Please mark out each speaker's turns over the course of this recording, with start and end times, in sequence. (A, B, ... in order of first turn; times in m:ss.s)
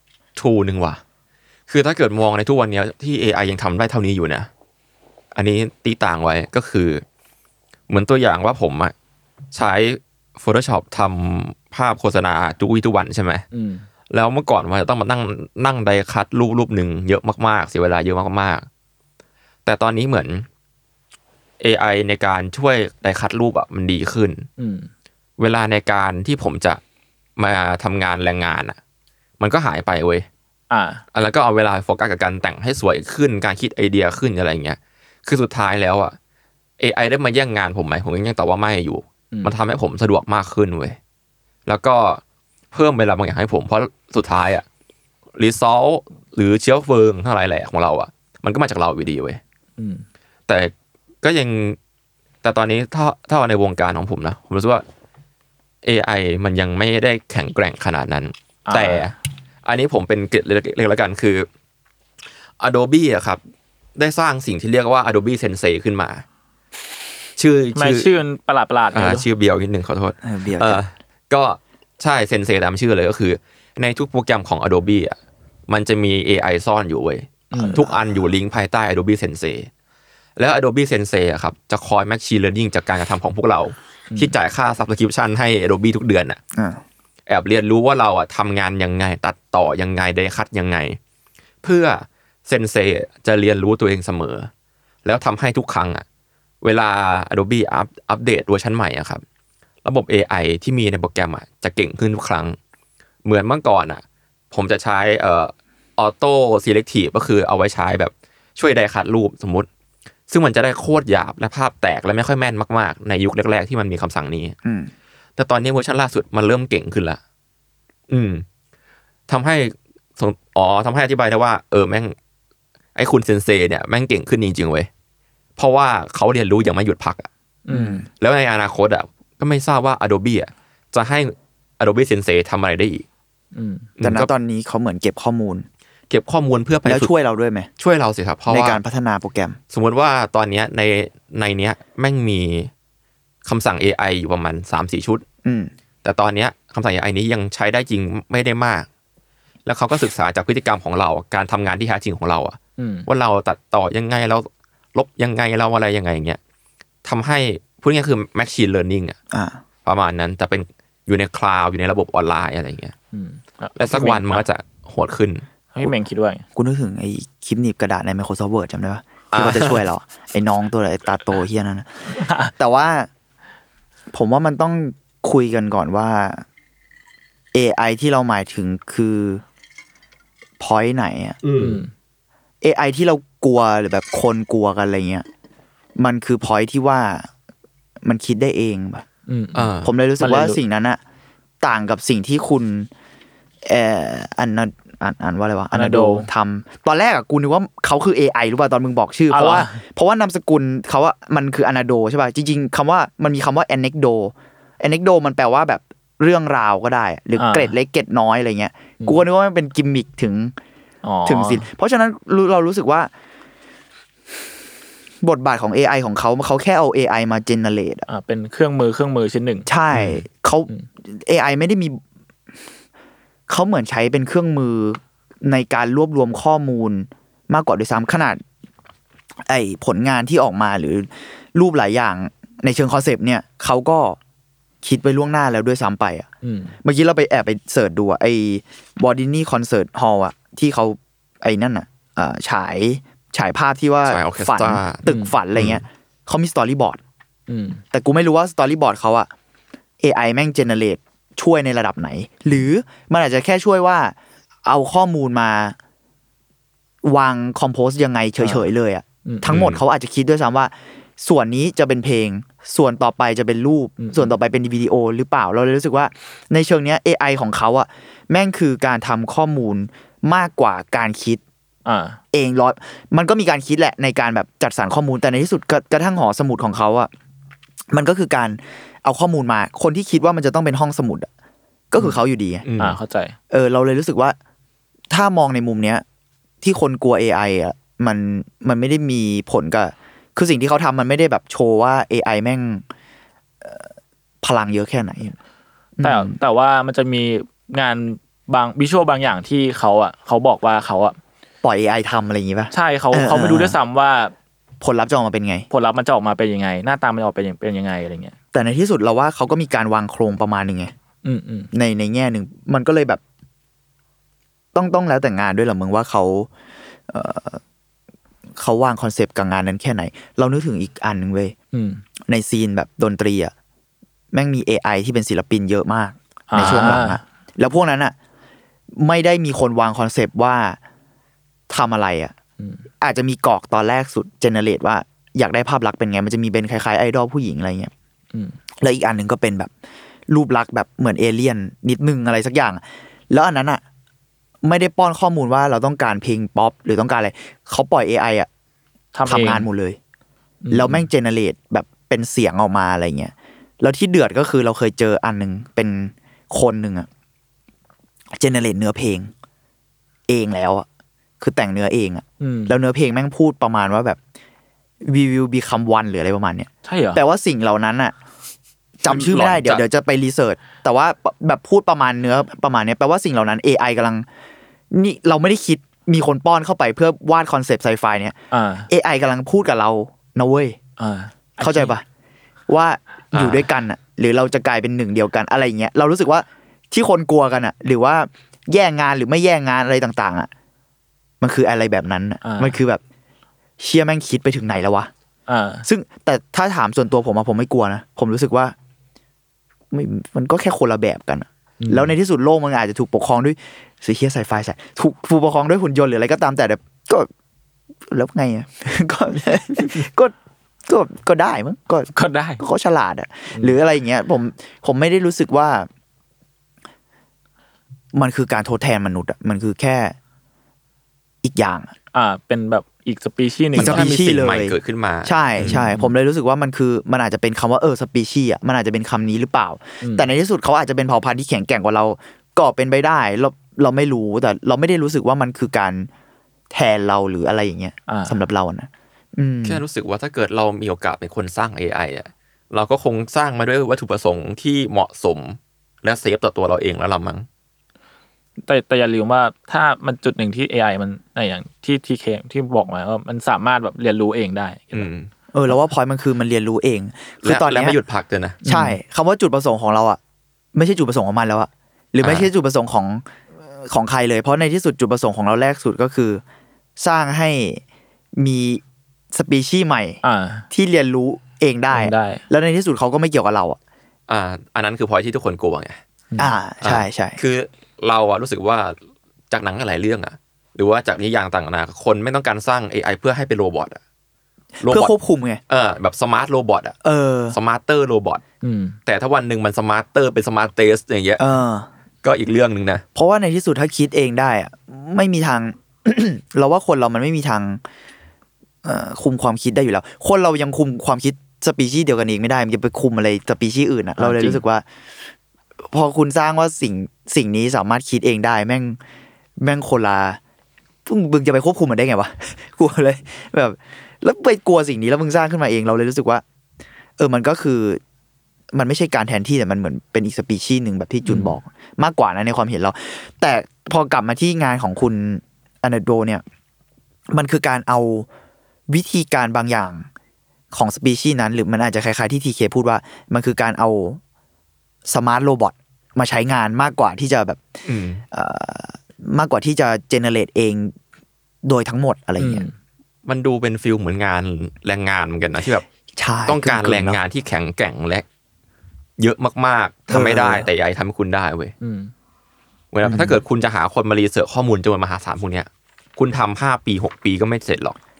0:00.4-0:01.0 A
0:01.7-0:04.5 A
0:05.3-0:07.0 A
0:07.9-0:08.9 A
0:09.5-0:13.4 A
0:13.5-0:13.9 B
0:14.1-0:18.7 A
0:19.6-0:20.5 A
0:21.6-0:24.5 A
0:24.6-0:24.9 B
0:25.4-0:26.8 A
0:27.4-0:28.8 A
0:29.4-0:30.3 A
0:30.7-0:31.0 B
0:31.1-0:36.2 A
0:36.8-0:41.0 A
0:41.7-0:42.2 A
0:42.7-0:44.6 A
0:45.4-0:49.4 A
0:49.8-0:50.0 B
0:50.5-0:51.8 A
0:52.4-0:54.8 A
0:55.8-1:01.5 A
0:58.7-0:59.1 B
1:02.6-1:03.4 A
1:04.0-1:06.2 A
1:07.4-1:08.1 A
1:07.8-1:09.2 B
1:08.9-1:15.2 A
1:10.2-1:10.8 C
1:15.7-1:19.7 A
1:17.5-1:17.8 B
1:17.6-1:18.0 C
1:20.4-1:26.4 A
1:26.6-1:26.8 C
1:27.3-1:31.0 A
1:31.6-1:34.5 A
1:35.0-1:36.0 A
1:36.6-1:39.2 A
1:39.8-1:42.6 A
1:43.2-1:49.7 A
1:50.3-1:54.6 A
1:54.6-1:54.9 C
1:55.4-1:57.2 A
1:58.1-1:58.4 A
1:59.3-2:02.2 A
2:03.0-2:04.9 A
2:05.6-2:07.3 A
2:07.7-2:08.0 B
2:07.7-2:08.1 C
2:08.2-2:13.0 A
2:13.5-2:13.9 B
2:14.0-2:14.3 A
2:14.0-2:15.7 C
2:16.1-2:17.1 A
2:16.8-2:17.7 C
2:17.8-2:18.8 A
2:18.5-2:19.6 C
2:19.7-2:22.7 A
2:23.4-2:25.2 A
2:25.4-2:25.7 C
2:26.0-2:28.9 A
2:29.7-2:36.4 A
2:32.8-2:33.1 B
2:37.0-2:39.2 A
2:39.3-2:39.6 C
2:39.8-2:42.9 A
2:43.1-2:44.4 B
2:43.8-2:45.5 A
2:45.7-2:46.4 B
2:46.6-2:53.1 C
2:49.3-2:49.8 A
2:52.1-2:52.5 B
2:54.1-2:56.4 C
2:57.5-2:59.4 C
3:00.6-3:01.4 C
3:01.4-3:01.8 A
3:01.6-3:01.9 B
3:02.6-3:05.3 C
3:06.0-3:07.3 C
3:08.0-3:09.0 C
3:09.3-3:10.6 B
3:09.6-3:09.9 A
3:09.8-3:11.0 C
3:11.6-3:12.9 C
3:13.6-3:30.6 C
3:15.7-3:16.3 B
3:19.3-3:19.8 B
3:27.4-3:27.7 B
3:31.0-3:31.7 B
3:31.3-3:33.1 C
3:35.2-3:38.1 C
3:38.1-3:40.9 B
3:39.7-3:42.0 C
3:43.5-3:48.4 C
3:49.4-3:54.2 C
3:54.8-3:56.3 C
3:56.4-3:56.8 B
3:56.8-4:07.0 C
4:04.1-4:05.0 A
4:05.1-4:05.3 B
4:05.6-4:05.8 A
4:07.5-4:07.8 B
4:07.9-4:09.3 C
4:10.0-4:15.8 C
4:17.0-4:31.4 C
4:18.4-4:18.6 B
4:19.5-4:19.8 A
4:24.0-4:24.3 B
4:31.8-4:32.2 B
4:32.3-4:37.1 C
4:37.9-4:41.3 C
4:41.9-4:42.6 C
4:42.6-4:43.0 A
4:42.8-4:43.4 B
4:43.5-4:44.4 C
4:45.1-4:46.0 C
4:46.6-4:52.8 C
4:53.6-4:53.9 C
4:54.4-4:55.4 C
4:56.0-4:56.4 C
4:56.0-5:01.2 B
5:01.6-5:03.8 C
5:02.7-5:04.3 B
5:04.8-5:05.7 C
5:05.7-5:08.4 B
5:08.5-5:10.9 C
5:11.2-5:11.7 B
5:11.7-5:13.2 C
5:14.7-5:16.5 C
5:17.1-5:17.6 C
5:18.6-5:21.6 C
5:21.7-5:22.0 B
5:22.3-5:23.5 C
5:24.3-5:28.2 C
5:26.5-5:27.2 B
5:26.6-5:27.1 A
5:29.0-5:30.8 C
5:31.7-5:32.3 C
5:33.0-5:37.9 C
5:38.8-5:39.7 C
5:40.3-5:43.8 C
5:44.6-5:48.5 C
5:49.1-5:49.7 B
5:49.3-5:50.0 C
5:50.6-5:51.1 B
5:50.7-5:57.1 C
5:58.3-5:59.3 C
6:00.3-6:00.9 C
6:01.4-6:04.2 C
6:02.4-6:02.8 B
6:05.0-6:08.2 C
6:06.8-6:07.2 B
6:09.0-6:14.3 C
6:09.1-6:09.8 A
6:14.9-6:18.4 C
6:18.5-6:18.9 B
6:18.9-6:20.8 C
6:21.0-6:21.9 B
6:21.6-6:22.0 C
6:22.7-6:30.5 C
6:23.3-6:23.7 A
6:31.4-6:33.0 C
6:32.4-6:32.8 B
6:33.8-6:35.1 C
6:35.5-6:35.8 B
6:35.8-6:38.8 C
6:39.9-6:47.3 C
6:41.8-6:42.1 B
6:48.1-6:50.4 C
6:50.9-6:55.9 C
6:52.1-6:52.6 B
6:53.5-6:53.8 B
6:58.1-7:00.2 C
7:01.4-7:01.9 C
7:02.1-7:04.1 B
7:03.7-7:16.1 C
7:03.8-7:05.8 A
7:05.6-7:06.1 B
7:10.0-7:10.3 B
7:16.7-7:19.8 C
7:18.1-7:18.4 B
7:19.6-7:27.5 A
7:28.7-7:35.1 B
7:34.9-7:35.3 A
7:35.5-7:38.0 C
7:37.4-7:38.6 A
7:38.6-7:39.0 B
7:38.6-7:40.2 C
7:40.7-7:46.4 C
7:42.2-7:42.5 A
7:47.0-7:47.8 C
7:48.4-7:53.8 C
7:50.2-7:50.7 B
7:51.9-7:52.5 B
7:54.3-7:56.0 A
7:56.4-7:57.4 C
7:56.8-7:59.0 A
7:59.5-8:04.0 A
8:04.8-8:05.6 C
8:04.8-8:05.1 A
8:05.7-8:07.0 A
8:07.0-8:07.6 C
8:07.5-8:08.4 A
8:08.6-8:09.0 B
8:09.1-8:11.5 A
8:11.4-8:11.9 C
8:12.2-8:13.0 A
8:13.2-8:17.8 C
8:18.8-8:24.8 C
8:24.2-8:24.6 B
8:25.9-8:29.0 C
8:29.6-8:30.4 C
8:31.1-8:36.4 C
8:37.2-8:38.0 C
8:38.7-8:46.4 C
8:41.2-8:41.6 B
8:47.3-8:48.3 C
8:48.9-8:50.1 C
8:50.7-8:54.2 C
8:55.1-8:57.6 C
8:57.9-8:58.2 A
8:58.3-9:01.0 C
9:01.6-9:02.7 C
9:02.4-9:02.8 B
9:03.3-9:05.8 A
9:06.2-9:07.2 C
9:06.5-9:08.2 A
9:09.2-9:11.7 A
9:10.1-9:10.7 C
9:11.8-9:12.1 B
9:12.9-9:18.0 A
9:13.0-9:13.4 C